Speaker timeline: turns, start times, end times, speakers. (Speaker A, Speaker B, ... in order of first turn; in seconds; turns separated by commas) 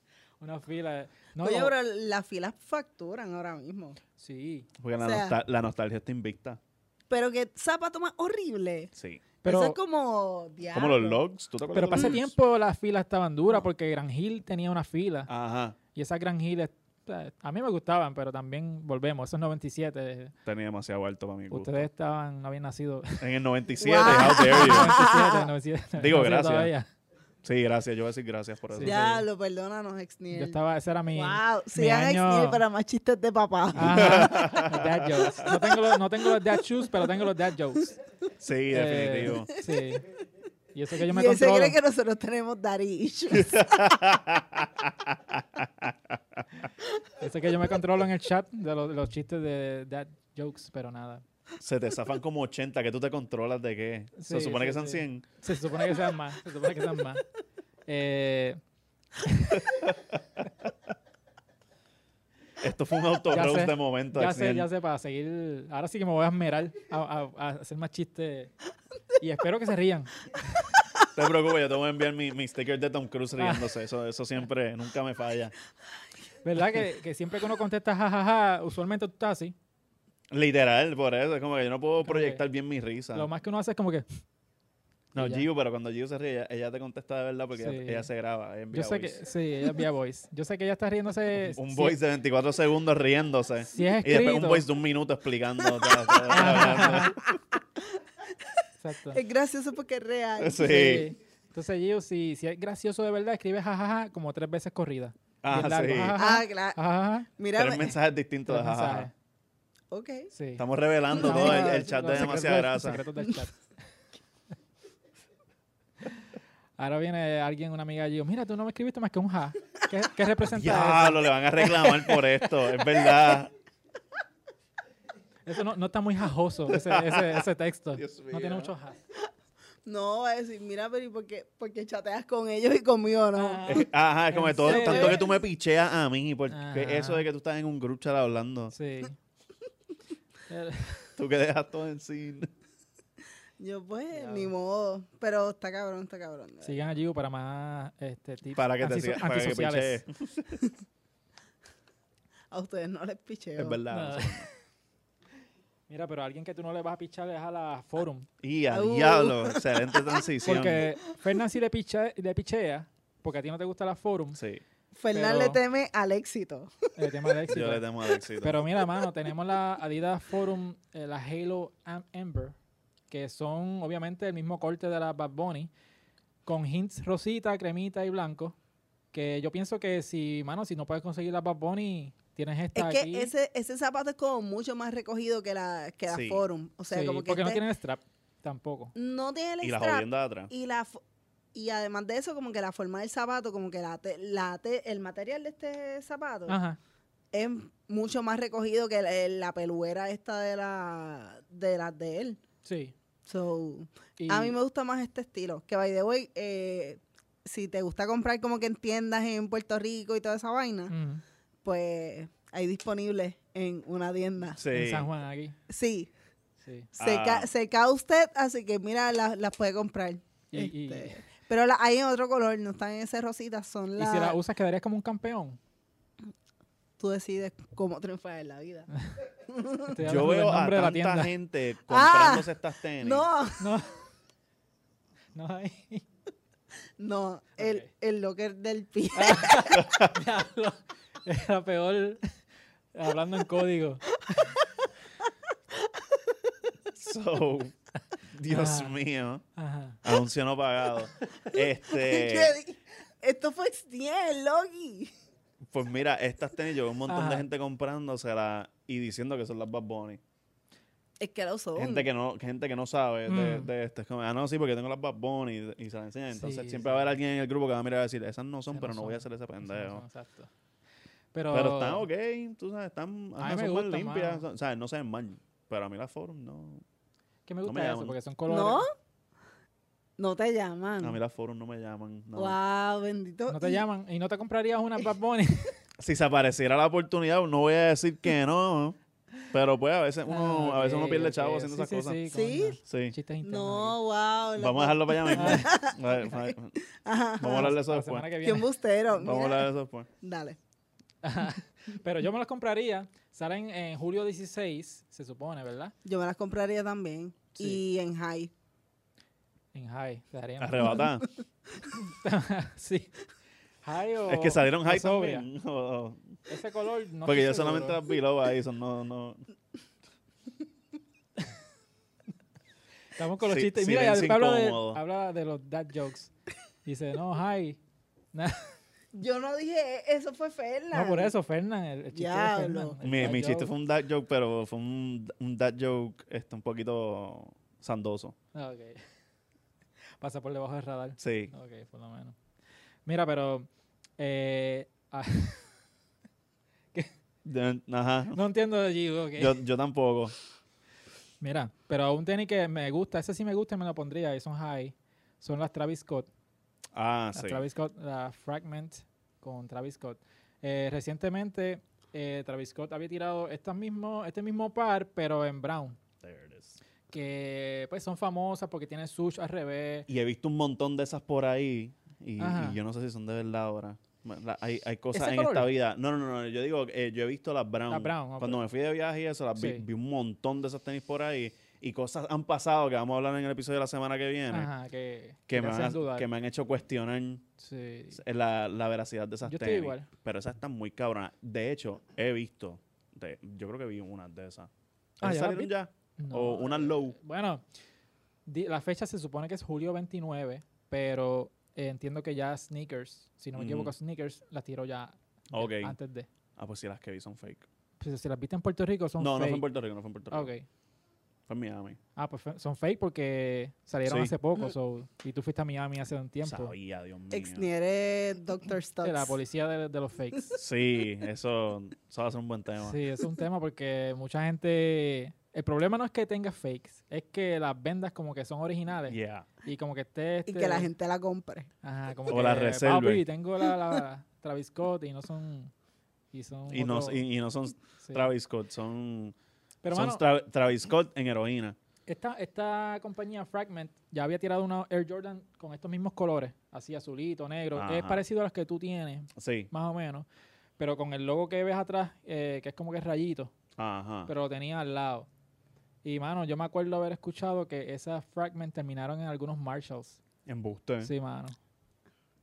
Speaker A: 0.4-1.7, Speaker B: 1.4-4.0, Speaker A: 4.2-4.7, Speaker C: 4.8-6.6, Speaker B: 5.0-5.3, Speaker B: 7.1-8.9, Speaker C: 8.9-9.2, Speaker B: 9.4-11.2, Speaker A: 9.4-9.8, Speaker C: 10.7-12.3, Speaker A: 11.7-15.3, Speaker C: 15.3-15.8, Speaker A: 15.9-20.3, Speaker C: 20.4-21.9, Speaker A: 21.5-23.2, Speaker C: 23.2-24.9, Speaker B: 23.8-25.5, Speaker A: 24.0-26.9, Speaker C: 25.9-26.7, Speaker C: 27.4-29.2, Speaker A: 28.7-29.2, Speaker B: 28.8-30.6, Speaker A: 30.3-32.6, Speaker B: 31.1-34.3, Speaker A: 33.7-37.9, Speaker C: 33.8-35.5, Speaker C: 38.4-39.5, Speaker A: 38.7-40.0, Speaker A: 40.7-41.8, Speaker B: 41.0-43.9, Speaker C: 43.3-46.6, Speaker A: 47.2-51.2, Speaker C: 51.6-55.2, Speaker A: 54.1-57.2, Speaker A: 57.9-58.6, Speaker A: 59.2-59.9, Speaker C: 59.7-60.7, Speaker C: 62.6-64.7, Speaker A: 63.3-68.5, Speaker A: 69.2-70.2, Speaker C: 71.1-75.5, Speaker A: 73.4-73.7, Speaker A: 76.4-79.5, Speaker C: 80.3-83.3, Speaker A: 82.0-82.4, Speaker A: 83.1-84.0, Speaker C: 85.1-89.2, Speaker A: 85.2-85.5, Speaker A: 87.6-88.1, Speaker A: 88.7-92.0, Speaker C: 91.3-97.2, Speaker A: 93.7-94.6, Speaker B: 95.9-97.3, Speaker A: 96.3-97.1, Speaker A: 98.8-99.2, Speaker B: 99.1-101.0, Speaker C: 100.4-101.1, Speaker A: 100.6-107.3, Speaker C: 105.4-106.2, Speaker B: 106.2-108.0, Speaker C: 107.5-109.1, Speaker A: 108.5-109.1, Speaker B: 109.9-110.3, Speaker A: 110.3-113.6, Speaker C: 110.6-113.0, Speaker B: 111.1-111.8, Speaker A: 116.8-122.2, Speaker C: 120.5-123.5, Speaker A: 125.5-129.0, Speaker C: 126.7-128.7, Speaker B: 129.8-133.9, Speaker A: 133.3-135.2, Speaker C: 133.7-138.7, Speaker B: 134.6-135.4, Speaker A: 136.5-137.2, Speaker A: 138.7-139.2, Speaker A: 140.5-141.1, Speaker C: 141.2-142.5, Speaker B: 143.6-146.8, Speaker A: 144.1-144.5, Speaker A: 146.6-150.0, Speaker C: 148.5-150.6, Speaker B: 152.5-153.8, Speaker C: 153.6-154.5, Speaker A: 153.9-154.5, Speaker A: 155.9-158.3, Speaker C: 158.4-160.8, Speaker B: 158.7-160.2, Speaker A: 160.4-164.4, Speaker C: 164.3-164.6, Speaker B: 164.9-166.9, Speaker A: 165.1-165.6, Speaker A: 166.9-167.8, Speaker C: 167.5-168.7, Speaker A: 168.4-172.6, Speaker A: 173.1-175.7, Speaker A: 176.4-178.6, Speaker A: 179.1-183.3, Speaker B: 182.7-187.6, Speaker C: 186.1-186.4, Speaker A: 186.9-188.9, Speaker B: 188.9-191.0, Speaker C: 189.6-190.5, Speaker B: 191.5-196.6, Speaker A: 196.5-196.8, Speaker B: 197.3-202.4, Speaker A: 202.6-202.9, Speaker B: 203.3-210.9, Speaker A: 204.2-204.6, Speaker A: 210.9-211.2, Speaker B: 211.6-214.6, Speaker C: 214.6-215.1, Speaker A: 214.7-215.6, Speaker B: 215.7-216.1, Speaker A: 216.6-216.9, Speaker C: 217.0-217.5, Speaker B: 217.0-224.4, Speaker A: 220.5-221.2, Speaker A: 224.0-225.6, Speaker B: 227.0-228.9, Speaker B: 229.5-229.9, Speaker A: 229.9-231.3, Speaker C: 230.0-233.3, Speaker B: 231.9-233.7, Speaker A: 233.6-234.0, Speaker A: 235.3-236.0, Speaker B: 237.0-239.7, Speaker A: 237.6-237.9, Speaker A: 239.1-242.3, Speaker C: 239.7-240.1, Speaker A: 242.9-244.6, Speaker B: 246.1-246.3, Speaker C: 246.9-247.7, Speaker C: 248.3-249.4, Speaker A: 248.5-249.0, Speaker A: 249.6-250.0, Speaker C: 250.0-252.6, Speaker B: 251.9-255.1, Speaker C: 255.6-260.2, Speaker A: 257.1-257.4, Speaker B: 261.2-262.1, Speaker C: 261.8-270.0, Speaker A: 263.3-263.7, Speaker A: 266.3-267.1, Speaker A: 268.7-270.5, Speaker A: 271.3-272.0, Speaker C: 271.5-276.8, Speaker A: 273.4-274.4, Speaker A: 277.4-278.9, Speaker C: 277.6-278.1, Speaker B: 278.5-278.9, Speaker B: 280.2-281.2, Speaker C: 281.0-282.6, Speaker B: 282.3-283.8, Speaker A: 283.5-285.7, Speaker C: 286.0-289.0, Speaker C: 289.5-292.2, Speaker A: 290.3-293.9, Speaker B: 292.3-292.8, Speaker C: 292.8-293.1, Speaker B: 293.4-297.7, Speaker C: 294.6-296.8, Speaker A: 295.3-295.7, Speaker C: 297.4-298.3, Speaker A: 297.5-298.7, Speaker B: 298.4-299.7, Speaker C: 299.1-300.1, Speaker B: 300.2-300.6, Speaker A: 301.2-305.9, Speaker B: 306.0-308.5, Speaker A: 309.7-311.1, Speaker C: 310.6-311.2, Speaker A: 311.9-313.1, Speaker A: 313.8-315.5, Speaker C: 314.3-316.3, Speaker A: 316.5-318.0, Speaker C: 317.2-319.4, Speaker A: 323.1-326.3, Speaker C: 323.4-325.0, Speaker A: 326.8-327.8, Speaker A: 328.3-328.7, Speaker B: 329.1-331.3, Speaker A: 330.9-333.7, Speaker B: 332.1-333.0, Speaker C: 333.0-338.4, Speaker A: 338.5-339.0, Speaker A: 340.2-342.4, Speaker C: 341.2-341.5, Speaker A: 343.1-345.7, Speaker C: 347.4-348.4, Speaker A: 348.3-349.6, Speaker C: 349.4-350.3, Speaker A: 351.4-356.3, Speaker C: 356.9-357.6, Speaker A: 357.3-366.0, Speaker C: 366.2-366.8, Speaker A: 367.1-370.1, Speaker C: 370.1-384.7, Speaker A: 372.4-372.8, Speaker A: 375.1-375.7, Speaker A: 377.9-378.6, Speaker A: 379.6-379.8, Speaker A: 384.5-386.2, Speaker C: 385.5-387.4, Speaker A: 387.6-388.2, Speaker C: 388.1-397.1, Speaker A: 389.4-390.1, Speaker A: 395.2-397.6, Speaker A: 398.4-406.3, Speaker C: 403.5-403.9, Speaker C: 405.5-405.9, Speaker C: 406.6-407.6, Speaker A: 408.0-409.6, Speaker C: 409.2-410.5, Speaker A: 410.3-410.6, Speaker C: 411.5-412.0, Speaker A: 412.1-416.7, Speaker C: 414.0-414.3, Speaker C: 416.4-417.7, Speaker B: 417.3-419.4, Speaker A: 419.0-420.6, Speaker C: 420.6-423.0, Speaker A: 422.8-430.9, Speaker C: 429.1-429.5, Speaker B: 430.5-431.7, Speaker A: 431.8-435.7, Speaker C: 432.3-433.2, Speaker A: 436.3-437.2, Speaker C: 436.7-439.3, Speaker A: 438.0-438.3, Speaker A: 439.8-440.2, Speaker C: 439.9-441.8, Speaker A: 442.1-450.2, Speaker C: 447.7-448.2, Speaker C: 449.4-449.7, Speaker A: 450.8-453.5, Speaker C: 453.8-454.3, Speaker A: 454.3-455.3, Speaker A: 456.0-460.2, Speaker C: 460.4-461.1, Speaker A: 461.0-461.6